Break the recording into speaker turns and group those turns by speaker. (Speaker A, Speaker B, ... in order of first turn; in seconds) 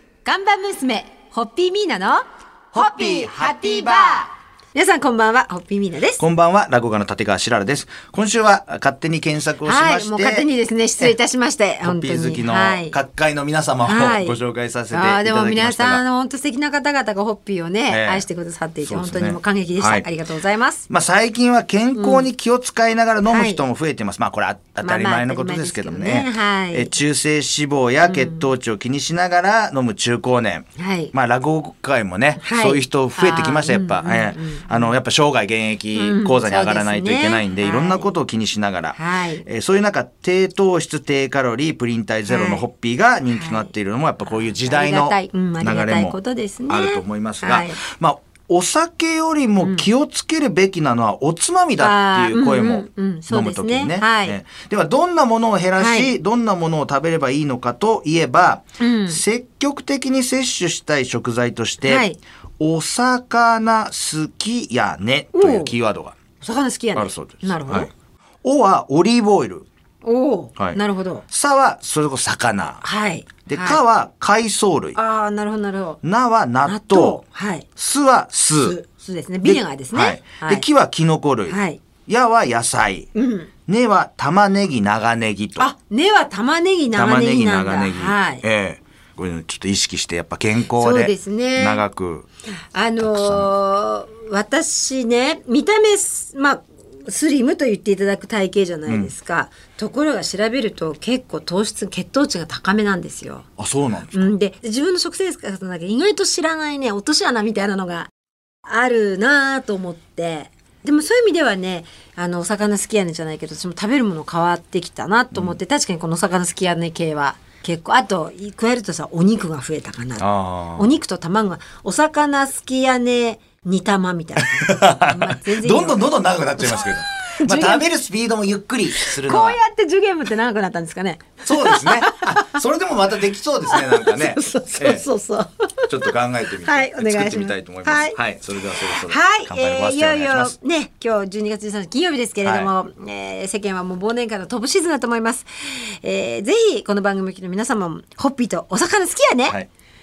Speaker A: 0.2-6.2, 9.6-13.0, 13.8-14.4, 14.9-20.8, 21.9-22.3, 23.3-23.6, 24.8-26.9, 28.0-28.5, 30.8-31.1, 32.4-35.0, 36.0-38.1, 38.9-39.5, 42.3-42.6, 43.3-43.7, 44.2-47.8, 49.6-49.9, 51.8-54.4, 55.8-56.1, 58.8-59.2, 61.8-62.2, 65.3-65.8, 66.4-67.9, 70.0-71.2, 72.8-73.8, 75.0-76.0, 76.6-77.7, 78.6-80.7, 81.5-81.8, 83.1-83.5, 85.6-88.4, 90.7-91.8, 92.7-103.5, 104.1-108.1, 108.6-127.9, 129.0-132.6, 133.7-138.2, 138.8-149.6
Speaker B: 2.7-4.2, 6.2-10.5, 11.8-16.0, 17.9-18.2, 18.9-20.1, 20.9-46.2, 46.7-62.0, 62.6-66.2, 67.0-67.9, 68.4-69.7, 71.3-72.8, 73.5-75.0, 76.0-77.2, 77.8-78.8, 79.4-83.1, 83.7-85.7, 86.9-92.3, 93.0-93.5, 98.9-99.1, 103.6-104.3, 120.2-121.0, 124.4-129.6, 131.5-135.0, 135.9-140.5, 142.4-142.7